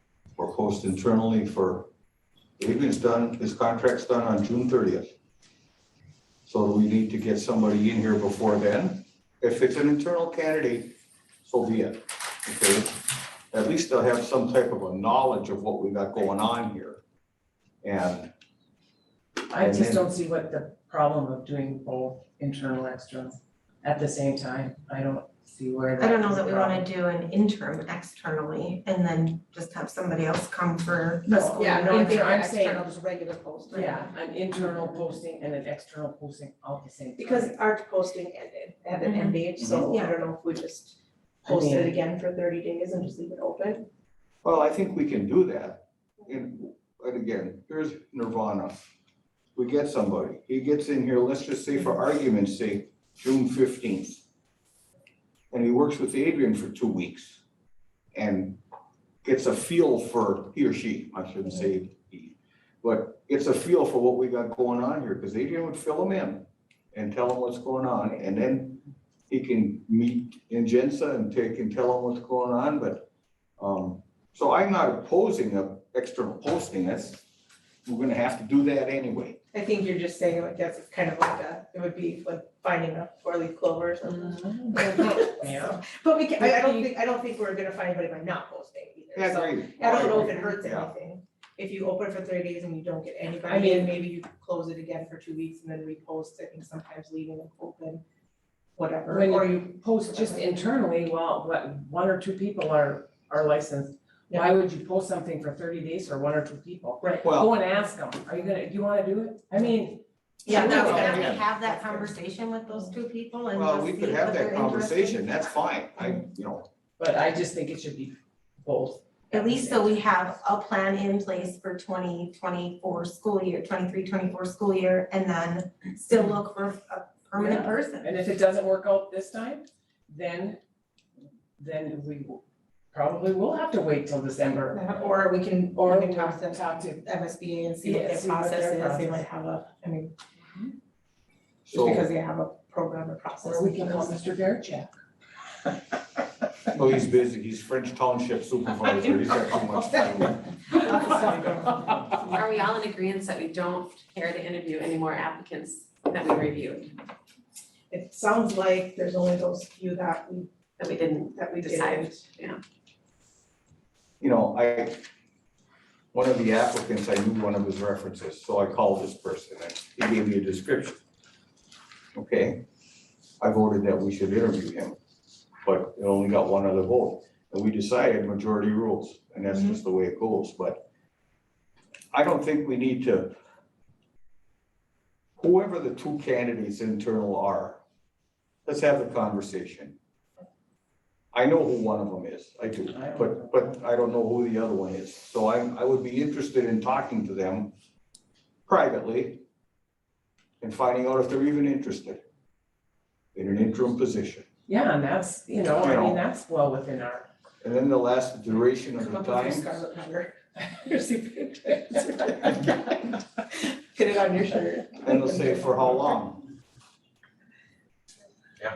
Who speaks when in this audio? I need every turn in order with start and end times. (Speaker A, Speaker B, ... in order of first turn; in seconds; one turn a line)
Speaker A: 0.3-1.9
Speaker A: 2.6-5.1
Speaker A: 6.4-17.0
Speaker A: 17.8-18.3
Speaker B: 19.5-26.9
Speaker A: 19.5-20.1
Speaker C: 26.0-32.3
Speaker B: 31.2-32.9
Speaker D: 31.5-34.1
Speaker B: 33.7-37.6
Speaker D: 37.2-43.9
Speaker C: 39.0-40.1
Speaker A: 39.6-39.9
Speaker B: 41.4-42.0
Speaker A: 44.4-48.9
Speaker A: 49.5-54.2
Speaker A: 55.5-57.4
Speaker A: 58.1-58.6
Speaker A: 59.2-73.1
Speaker A: 73.6-77.2
Speaker A: 77.8-79.4
Speaker D: 79.5-98.0
Speaker B: 84.1-85.8
Speaker B: 86.4-86.9
Speaker A: 89.1-90.9
Speaker B: 93.5-93.9
Speaker D: 98.8-100.4
Speaker B: 99.1-111.3
Speaker A: 107.2-107.5
Speaker D: 110.4-112.1
Speaker C: 110.5-115.5
Speaker A: 110.5-111.4
Speaker A: 113.5-116.7
Speaker B: 117.0-120.3
Speaker C: 119.3-128.2
Speaker B: 127.3-130.6
Speaker B: 131.6-134.8
Speaker D: 134.7-140.1
Speaker B: 135.7-137.0
Speaker B: 137.8-139.2
Speaker A: 141.7-142.1
Speaker D: 141.7-144.2
Speaker B: 143.4-144.9
Speaker A: 146.7-150.5
Speaker D: 150.7-152.4
Speaker E: 152.2-156.9
Speaker D: 157.9-162.2
Speaker E: 160.8-162.6
Speaker A: 164.2-165.0
Speaker A: 166.1-171.0
Speaker A: 172.1-172.6
Speaker A: 173.4-175.0
Speaker A: 175.6-180.8
Speaker A: 182.1-183.3
Speaker A: 185.4-187.8
Speaker A: 188.7-189.9
Speaker A: 191.3-197.7
Speaker B: 192.9-193.7
Speaker A: 198.7-199.4
Speaker A: 200.6-202.2
Speaker A: 203.3-204.4
Speaker B: 204.7-207.3
Speaker A: 205.8-206.2
Speaker A: 207.6-209.7
Speaker D: 208.9-216.2
Speaker A: 215.0-216.5